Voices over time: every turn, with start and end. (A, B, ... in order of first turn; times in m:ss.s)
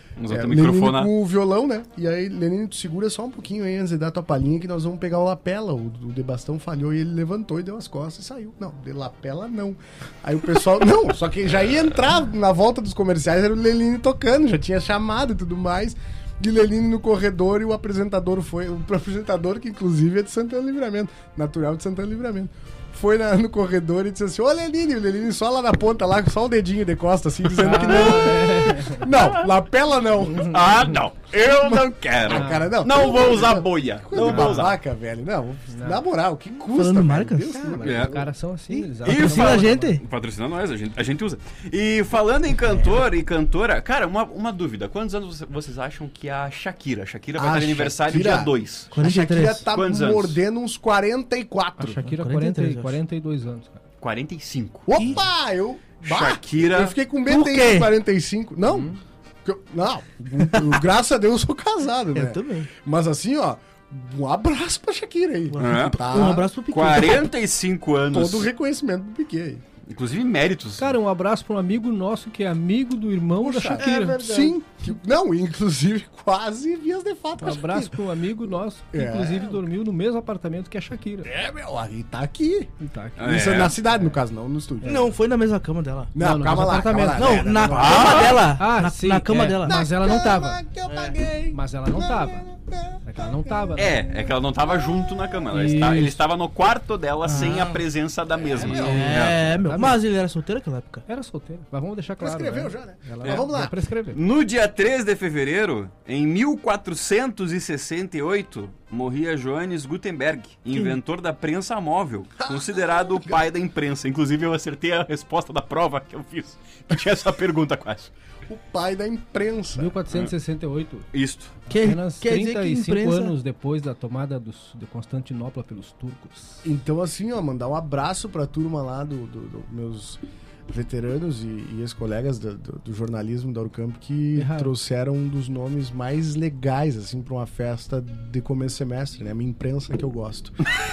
0:00.2-0:01.1 A
0:00.3-0:30.7 B
0:27.5-0:29.1 C
0:30.4-0:34.8 A
0:31.7-0:38.3 B
0:32.3-0:32.7 C
0:34.2-0:34.7 C
0:35.7-0:36.0 C
0:36.7-0:37.7 D
0:37.5-0:40.0 C
0:37.8-0:38.2 A
0:39.0-0:40.0 D
0:39.0-0:48.9 A
0:47.3-0:52.0 B
0:48.9-0:49.6 D
0:49.7-0:50.4 A
0:51.8-0:53.8 C
0:52.0-0:53.0 D
0:54.0-0:54.9 A
0:54.9-1:06.5 B
0:56.0-0:57.0 A
0:57.3-0:57.9 D
0:58.7-0:59.0 C
1:00.4-1:00.8 D
1:02.1-1:02.7 D
1:05.5-1:07.3 D
1:05.6-1:08.5 A
1:08.1-1:09.6 B
1:09.9-1:10.9 A
1:10.8-1:14.5 C
1:13.4-1:18.0 B
1:13.8-1:14.2 D
1:17.4-1:21.3 C
1:18.9-1:19.6 B
1:21.2-1:25.1 B
1:22.8-1:24.2 C
1:23.2-1:23.7 A
1:24.8-1:25.1 C
1:24.8-1:26.2 D
1:26.1-1:28.4 B
1:26.2-1:30.6 C
1:27.1-1:29.8 D
1:27.7-1:28.4 A
1:29.6-1:33.7 B
1:30.8-1:31.2 D
1:31.5-1:32.5 C
1:33.0-1:34.1 C
1:33.8-1:39.4 A
1:35.5-1:36.2 C
1:37.2-1:37.8 D
1:38.4-1:39.1 B
1:38.6-1:40.0 C
1:38.8-1:41.0 D
1:41.1-1:44.2 C
1:42.2-1:43.8 B
1:44.1-1:58.1 A
1:52.4-1:53.4 B
1:58.5-2:00.0 B
1:59.8-2:01.1 C
2:01.1-2:01.6 A
2:01.7-2:06.6 C
2:01.7-2:03.3 D
2:06.6-2:20.6 B
2:14.3-2:14.7 C